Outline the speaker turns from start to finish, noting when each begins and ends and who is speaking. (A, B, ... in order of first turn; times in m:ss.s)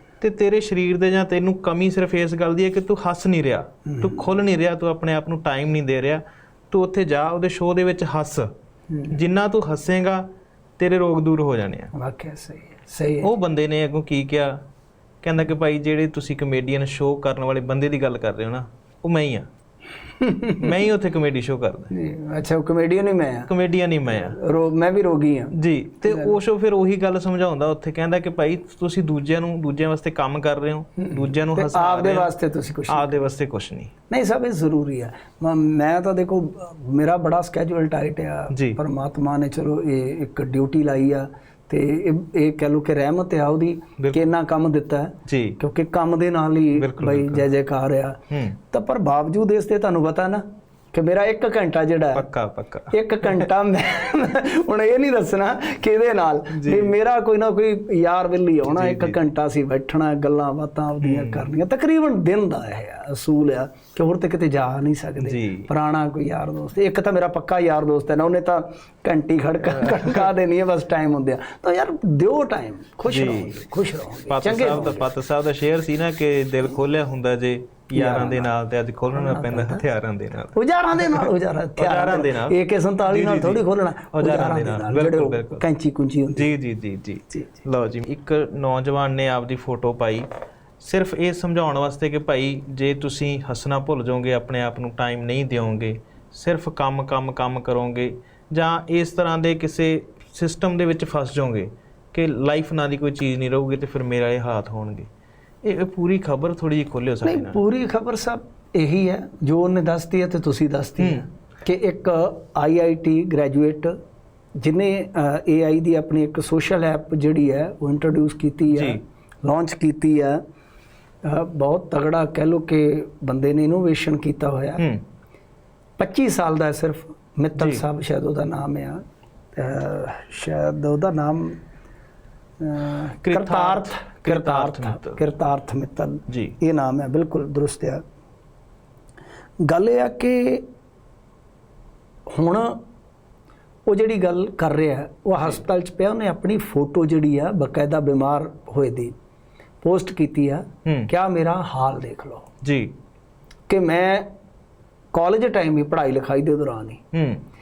0:00.2-0:08.5 A
0:03.9-0:04.2 B
0:08.9-0:09.2 B
0:09.1-0:10.3 A
0:10.8-0:11.9 A
0:11.9-0:13.3 B
0:13.2-0:14.6 A
0:15.2-0:19.5 A
0:20.2-0:20.7 B
0:20.6-0:21.9 A
0:21.9-0:23.5 B
0:23.5-0:24.4 A
0:24.2-0:25.5 B
0:25.5-0:32.3 A
0:31.0-0:33.2 B
0:32.9-0:33.9 A
0:34.1-0:48.2 B
0:38.5-0:38.8 A
0:44.0-0:44.3 A
0:45.3-0:45.6 A
0:46.8-0:47.4 A
0:48.3-0:48.6 A
0:48.7-0:52.2 B
0:52.2-0:53.5 A
0:52.9-1:15.1 B
0:56.5-0:56.9 A
0:58.6-0:59.2 A
1:01.0-1:01.5 A
1:05.2-1:05.7 A
1:13.1-1:13.6 A
1:14.3-1:25.6 A
1:17.9-1:18.5 B
1:19.1-1:19.8 B
1:20.5-1:26.5 B
1:26.3-1:30.3 A
1:30.8-1:45.1 A
1:45.6-1:47.6 A
1:47.2-1:53.9 B
1:51.0-1:51.2 A
1:54.6-2:00.4 B
1:58.7-1:59.0 A
2:01.2-2:04.8 B
2:06.0-2:09.0 B
2:07.6-2:07.8 A
2:09.6-2:11.6 B
2:12.6-2:18.0 B
2:13.2-2:15.2 A
2:16.3-2:16.6 A
2:19.6-2:20.6 B
2:22.3-2:22.8 B
2:23.9-2:29.1 B
2:29.8-2:32.5 B
2:30.9-2:31.1 A
2:32.6-2:32.9 A
2:33.7-2:34.3 B
2:35.1-2:37.0 B
2:37.1-2:37.4 A